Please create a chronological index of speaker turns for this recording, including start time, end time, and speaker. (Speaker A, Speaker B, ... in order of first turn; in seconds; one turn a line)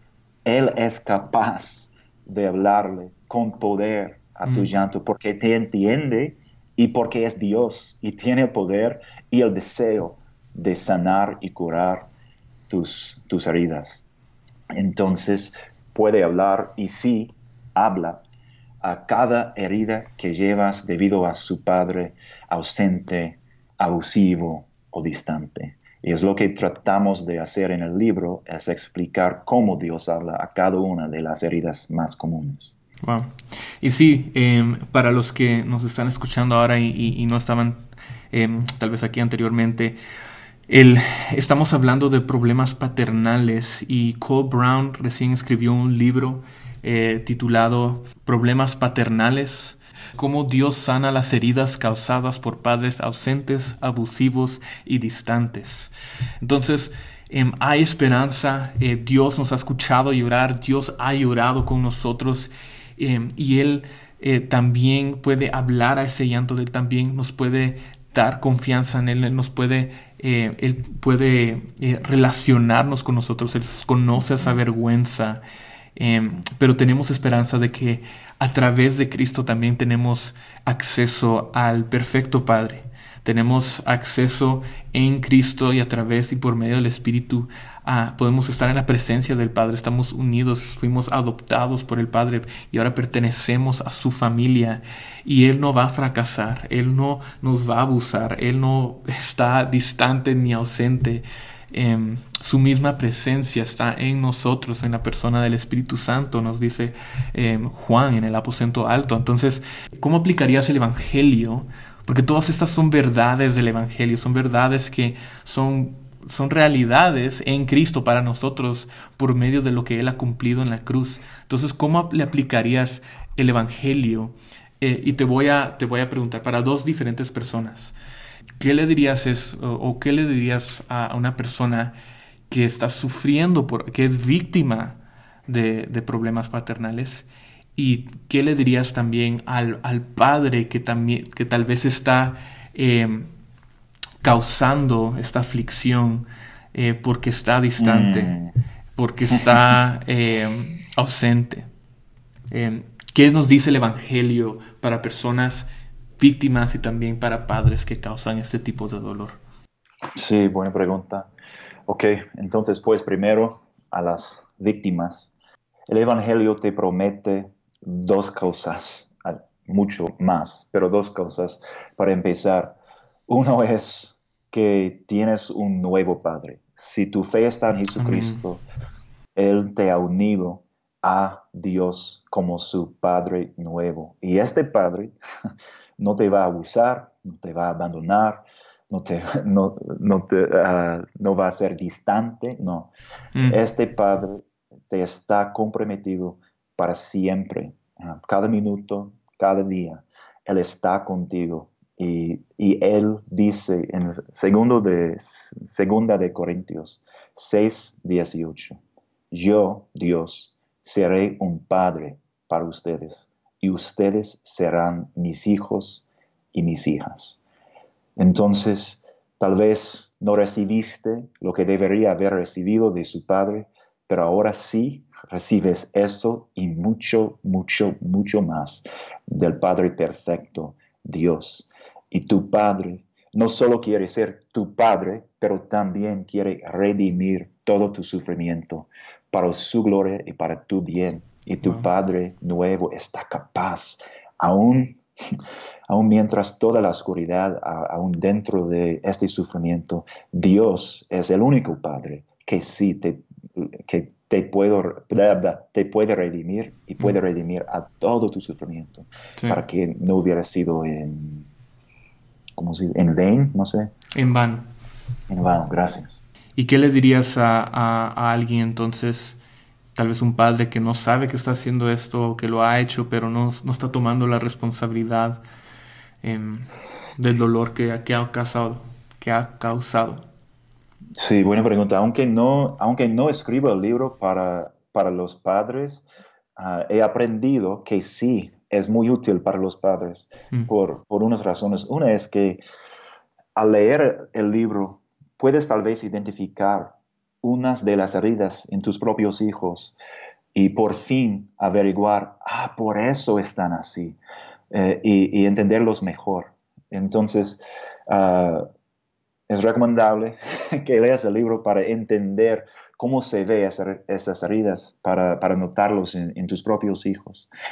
Speaker A: 0.4-12.1
Speaker B: 4.4-4.7
Speaker A: 12.7-14.0
Speaker A: 14.7-18.2
Speaker A: 18.8-32.7
Speaker B: 33.0-40.0
Speaker B: 40.7-55.9
Speaker B: 56.4-75.4
Speaker B: 76.0-127.9
Speaker B: 128.6-131.9
Speaker B: 132.5-143.3
Speaker B: 144.2-148.4
Speaker A: 147.8-148.5
Speaker B: 148.9-151.7
Speaker B: 152.5-159.4
Speaker A: 160.1-161.3
Speaker A: 161.9-165.3
Speaker A: 165.9-172.8
Speaker A: 173.3-178.6
Speaker B: 177.9-178.4
Speaker A: 179.3-185.2
Speaker A: 186.0-192.9
Speaker B: 193.3-193.6
Speaker A: 193.5-208.8
Speaker A: 209.3-217.4
Speaker A: 218.2-245.0
Speaker B: 241.6-241.9
Speaker A: 245.9-261.5
Speaker B: 259.4-259.6
Speaker A: 262.6-263.9
Speaker B: 264.1-264.7
Speaker A: 265.3-266.2
Speaker B: 266.6-269.4
Speaker B: 269.9-275.4
Speaker B: 276.2-280.2
Speaker A: 281.1-286.0
Speaker A: 286.6-292.6
Speaker A: 293.6-300.0
Speaker A: 300.5-304.2
Speaker A: 304.7-308.7
Speaker A: 309.5-317.5